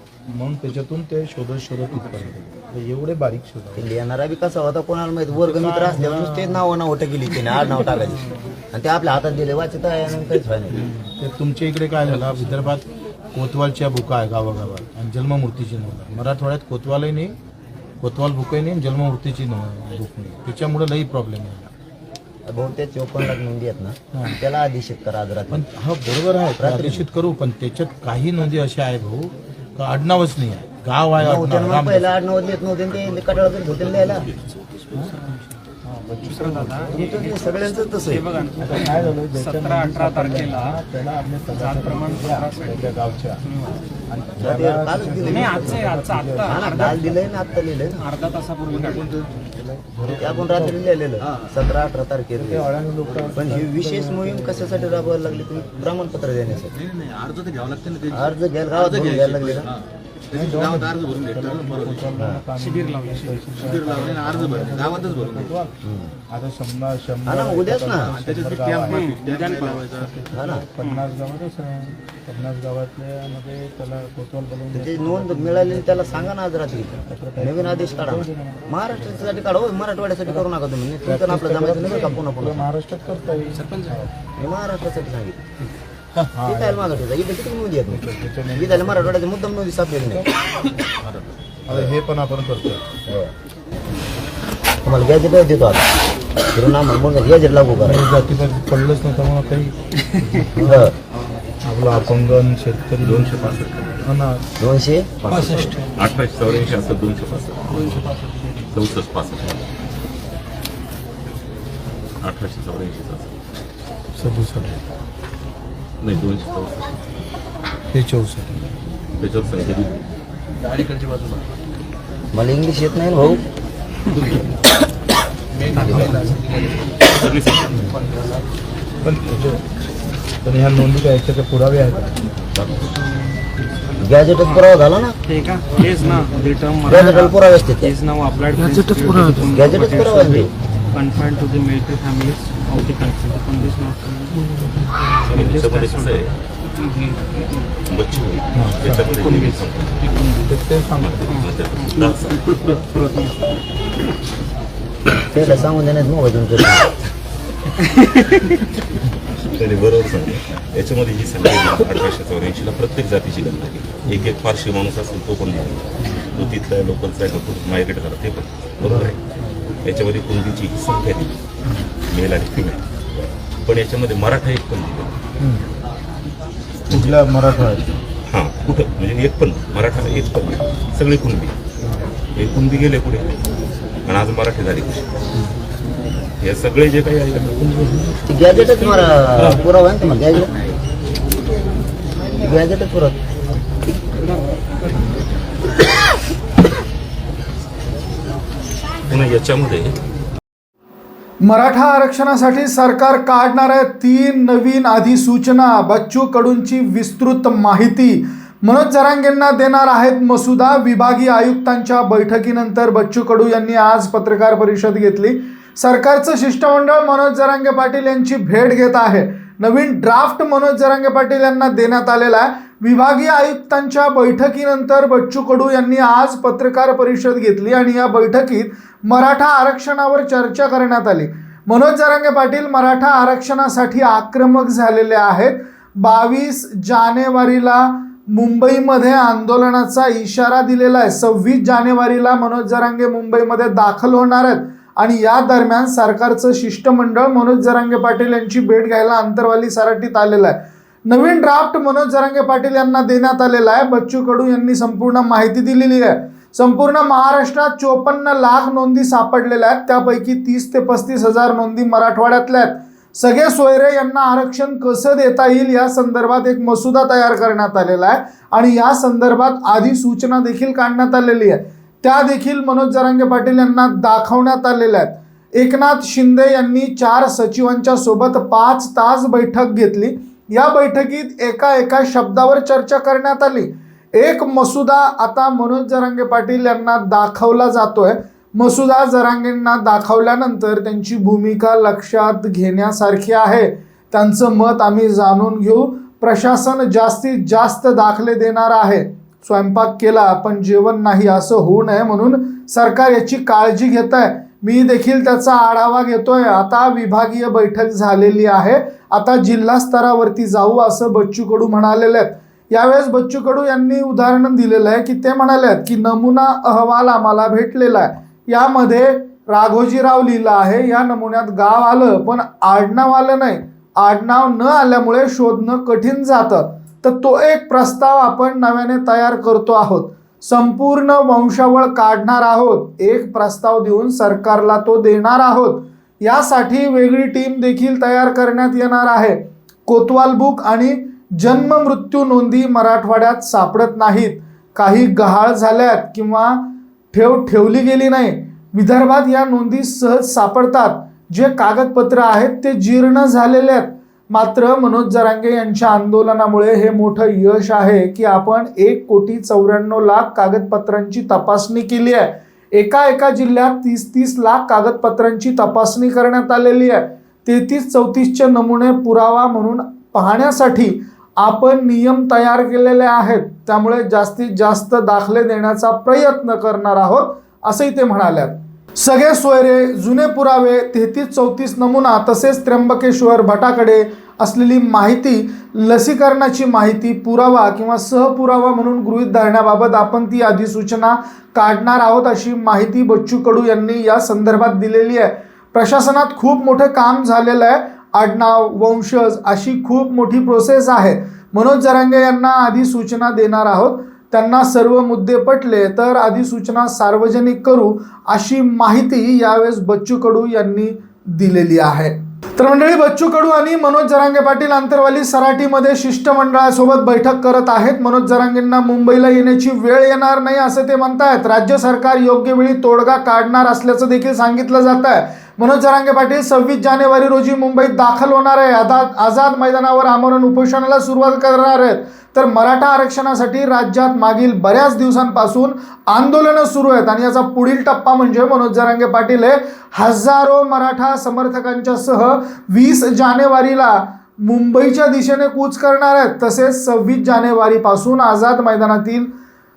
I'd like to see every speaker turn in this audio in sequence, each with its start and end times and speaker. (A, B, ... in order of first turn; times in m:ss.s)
0:00.3-0:03.9 A
0:03.7-0:10.8 B
0:05.3-0:06.6 A
0:10.7-0:17.4 A
0:18.0-0:21.7 A
0:22.5-0:25.7 B
0:24.1-0:24.4 A
0:25.5-0:32.1 A
0:26.6-0:27.0 B
0:31.2-0:34.3 B
0:34.9-0:35.2 A
0:35.1-0:35.4 C
0:35.8-0:37.1 A
0:36.2-0:40.8 C
0:36.9-0:38.2 B
0:38.5-0:43.4 A
0:41.5-0:43.8 C
0:44.1-0:47.5 A
0:44.4-0:45.9 B
0:45.2-0:47.1 C
0:46.4-0:48.0 B
0:47.9-0:49.1 C
0:48.7-0:49.3 D
0:49.3-0:50.8 A
0:50.1-0:52.7 B
0:52.4-0:55.7 A
0:53.3-0:56.8 B
0:56.8-0:59.8 D
0:58.1-0:59.7 B
1:00.3-1:05.7 A
1:00.3-1:02.1 D
1:02.2-1:02.4 B
1:02.6-1:03.4 C
1:03.6-1:05.5 D
1:05.8-1:06.1 B
1:06.3-1:09.1 A
1:07.2-1:08.1 B
1:08.1-1:10.1 D
1:08.9-1:09.9 C
1:09.9-1:16.4 A
1:10.3-1:10.6 B
1:10.8-1:11.0 C
1:14.7-1:22.7 B
1:17.0-1:19.4 A
1:21.0-1:24.1 A
1:24.4-1:25.4 B
1:26.3-1:27.1 A
1:26.4-1:28.0 B
1:27.9-1:29.2 A
1:28.5-1:30.3 B
1:31.7-1:32.9 A
1:31.7-1:31.9 B
1:33.1-1:33.3 B
1:34.8-1:35.9 B
1:36.5-1:38.0 B
1:37.8-1:40.9 A
1:40.6-1:40.9 B
1:41.6-1:44.4 A
1:43.0-1:44.0 E
1:44.6-1:45.1 B
1:45.2-1:49.7 E
1:52.2-1:53.3 E
1:54.1-1:54.8 A
1:56.0-1:57.0 E
1:57.9-1:58.7 A
1:59.2-2:00.0 E
2:02.3-2:03.4 B
2:05.7-2:06.6 C
2:05.7-2:06.3 B
2:05.8-2:06.4 A
2:07.1-2:07.7 E
2:09.0-2:09.6 A
2:10.4-2:12.2 A
2:14.0-2:15.1 B
2:14.4-2:14.7 C
2:15.3-2:24.5 C
2:16.0-2:16.2 A
2:16.8-2:17.9 B
2:19.4-2:20.5 B
2:20.7-2:21.0 A
2:25.2-2:26.3 E
2:25.3-2:26.3 C
2:27.9-2:30.4 E
2:28.5-2:29.1 A
2:30.4-2:31.2 A
2:31.0-2:32.8 E
2:31.3-2:32.1 C
2:32.9-2:33.3 C
2:35.3-2:36.9 B
2:39.6-2:49.2 E
2:46.0-2:46.5 A
2:48.8-2:49.7 A
2:49.8-2:51.4 E
2:52.1-2:52.8 E
2:53.6-2:55.2 E
2:55.4-2:55.6 A
2:56.8-2:57.2 E
2:56.9-2:57.9 A
2:58.3-3:01.5 E
3:02.3-3:03.4 E
3:04.0-3:05.1 E
3:06.4-3:07.8 E
3:08.3-3:10.5 B
3:09.4-3:09.6 E
3:12.4-3:13.2 B
3:19.1-3:20.0 E
3:21.4-7:29.3 F